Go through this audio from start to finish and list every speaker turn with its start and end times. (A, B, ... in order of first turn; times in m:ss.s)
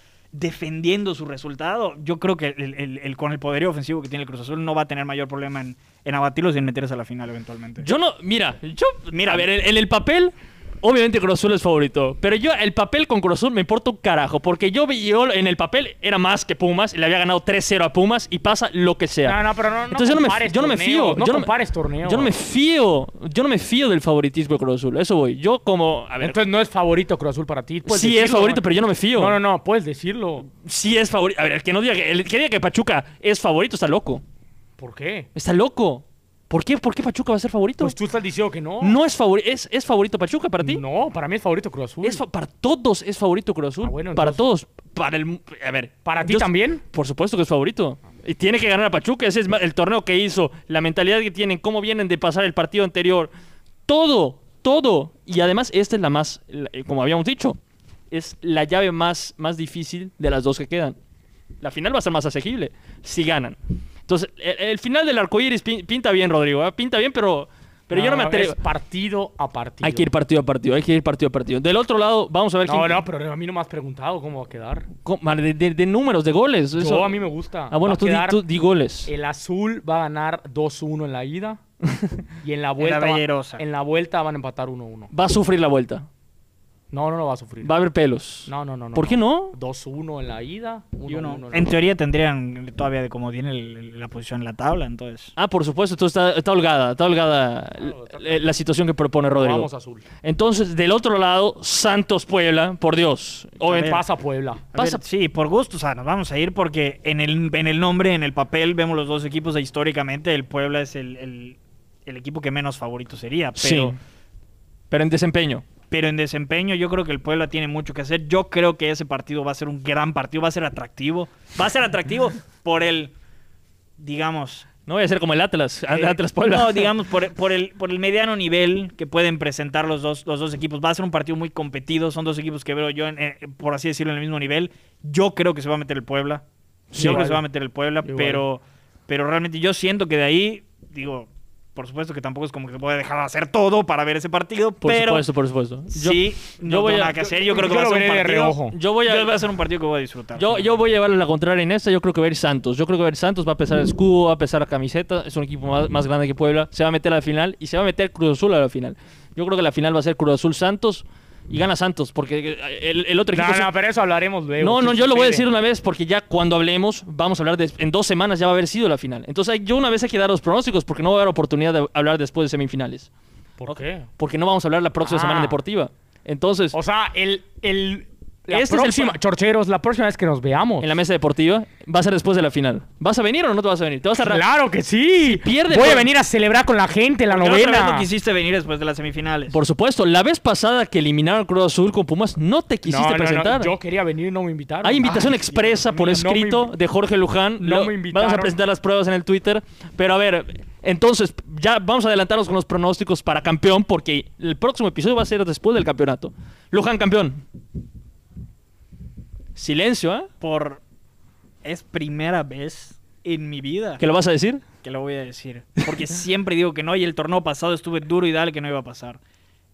0:00.3-0:07.9 A
0:07.8-0:21.5 B
0:09.1-0:09.5 A
0:19.2-0:22.3 C
0:22.0-0:26.4 B
0:26.2-0:28.6 C
0:27.8-0:29.4 B
0:29.1-0:30.5 C
0:30.5-0:34.2 B
0:34.8-0:35.3 C
0:35.3-0:38.0 B
0:37.8-0:39.0 C
0:38.8-0:40.8 B
0:40.6-0:42.2 C
0:42.0-0:53.3 B
0:43.8-0:44.4 C
0:46.0-0:46.8 C
0:53.9-0:57.6 B
0:58.1-1:01.0 B
1:01.6-1:08.6 B
1:07.9-1:10.1 C
1:09.8-1:13.0 B
1:12.6-1:14.9 C
1:15.0-1:17.2 B
1:16.8-1:18.4 C
1:17.7-1:19.1 B
1:19.0-1:21.6 C
1:22.4-1:25.1 C
1:22.8-1:23.6 A
1:25.1-1:26.1 B
1:26.9-1:27.7 C
1:27.6-1:29.6 B
1:28.5-1:31.7 C
1:31.1-1:35.3 A
1:35.4-1:39.7 B
1:37.8-1:38.5 C
1:39.4-1:40.0 C
1:40.2-1:44.0 B
1:43.6-1:44.6 C
1:43.7-1:44.0 A
1:44.7-1:54.0 A
1:44.7-1:45.0 B
1:53.6-1:54.0 B
1:54.9-1:55.6 B
1:55.9-2:03.1 A
2:04.0-2:04.7 A
2:04.8-2:06.9 B
2:05.9-2:25.2 A
2:16.9-2:17.2 B
2:16.9-2:17.4 C
2:18.0-2:18.4 C
2:24.8-2:27.2 B
2:25.9-2:30.7 A
2:27.4-2:28.8 C
2:28.7-2:29.4 B
2:30.4-2:43.7 B
2:43.3-2:45.4 C
2:44.6-2:53.1 B
2:53.6-2:54.1 C
2:53.7-2:56.8 B
2:55.0-2:55.6 C
2:56.7-3:00.9 C
2:58.5-2:59.1 B
3:00.8-3:04.4 B
3:04.2-3:08.1 C
3:05.2-3:06.0 B
3:07.3-3:09.6 A
3:09.5-3:13.7 B
3:12.8-3:15.3 C
3:14.8-3:27.4 B
3:15.0-3:16.0 A
3:15.9-3:16.7 C
3:17.6-3:18.5 C
3:29.5-3:30.3 B
3:30.4-3:30.8 A
3:31.6-3:34.0 A
3:34.0-3:34.6 B
3:34.8-3:39.2 A